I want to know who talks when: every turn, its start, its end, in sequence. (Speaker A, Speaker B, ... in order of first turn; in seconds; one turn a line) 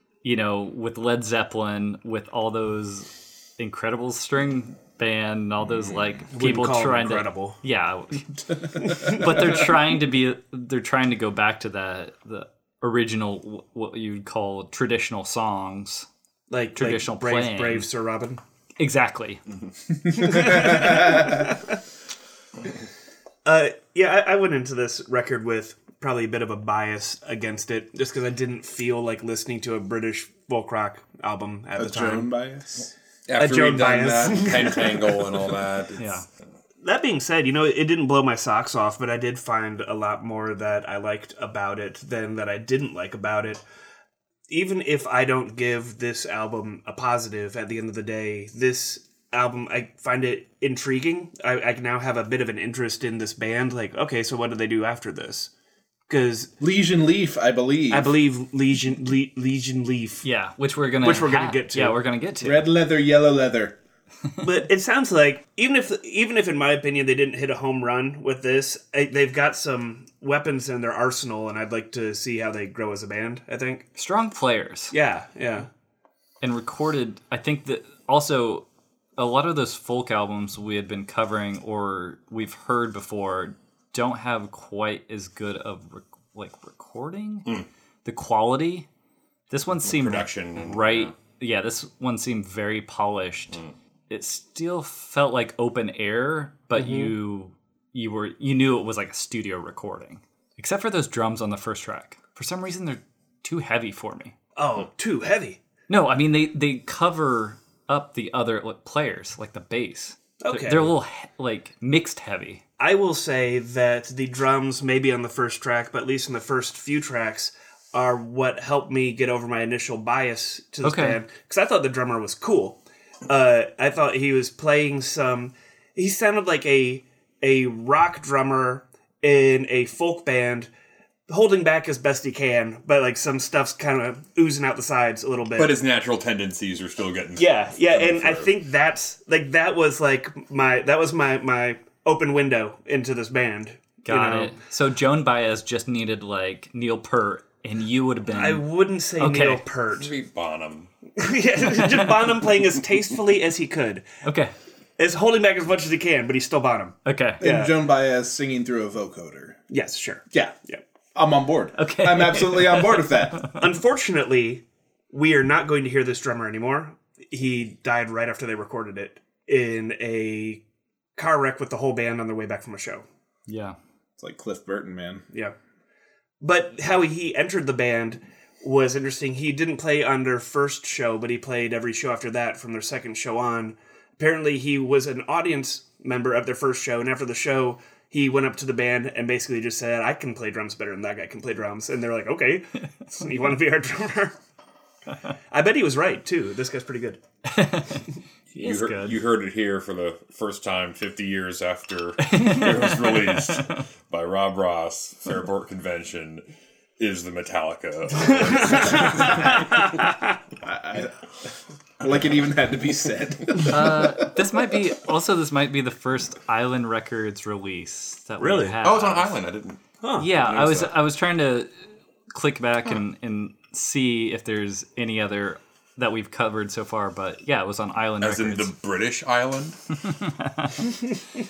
Speaker A: 0.2-16.1
Speaker B: 6.3-7.6
Speaker B: 16.5-18.4
Speaker A: 16.7-17.9
Speaker A: 18.8-19.4
Speaker B: 20.1-21.8
Speaker C: 20.2-21.4
Speaker B: 23.4-32.3
Speaker C: 31.8-32.9
Speaker D: 33.3-36.2
Speaker B: 33.4-35.5
Speaker A: 36.0-36.2
Speaker B: 36.8-43.6
Speaker B: 44.5-55.5
Speaker B: 56.1-56.5
Speaker C: 56.6-58.1
Speaker B: 57.9-60.2
Speaker A: 60.2-62.7
Speaker B: 61.0-62.0
Speaker C: 62.4-63.8
Speaker B: 64.4-73.8
Speaker A: 74.0-74.9
Speaker B: 74.9-75.7
Speaker A: 76.4-78.6
Speaker A: 79.2-87.5
Speaker A: 88.0-88.9
Speaker A: 89.5-93.6
Speaker D: 89.8-91.1
Speaker A: 94.1-104.3
Speaker B: 96.7-97.1
Speaker B: 104.5-105.6
Speaker A: 105.9-112.6
Speaker B: 110.4-110.9
Speaker B: 112.8-130.7
Speaker A: 120.8-121.2
Speaker B: 131.3-135.8
Speaker D: 135.6-138.5
Speaker B: 137.4-144.6
Speaker A: 144.0-148.6
Speaker B: 148.3-150.1
Speaker A: 149.2-149.6
Speaker D: 149.9-150.9
Speaker B: 151.2-154.1
Speaker A: 154.2-154.5
Speaker B: 155.0-157.7
Speaker A: 157.1-157.4
Speaker C: 157.4-159.6
Speaker B: 159.7-160.8
Speaker C: 160.3-160.6
Speaker C: 161.1-163.4
Speaker A: 161.8-163.6
Speaker B: 163.6-170.6
Speaker B: 171.2-173.0
Speaker A: 173.5-173.8
Speaker C: 174.2-175.2
Speaker B: 176.4-194.3
Speaker B: 195.5-197.2
Speaker A: 197.5-199.2
Speaker D: 198.5-206.4
Speaker A: 202.2-203.8
Speaker D: 207.0-209.9
Speaker B: 208.2-210.3
Speaker C: 210.6-214.3
Speaker A: 213.7-219.3
Speaker B: 218.4-218.8
Speaker D: 218.8-220.9
Speaker B: 220.0-220.3
Speaker A: 220.2-221.7
Speaker A: 222.3-228.7
Speaker D: 228.2-229.8
Speaker A: 230.0-231.0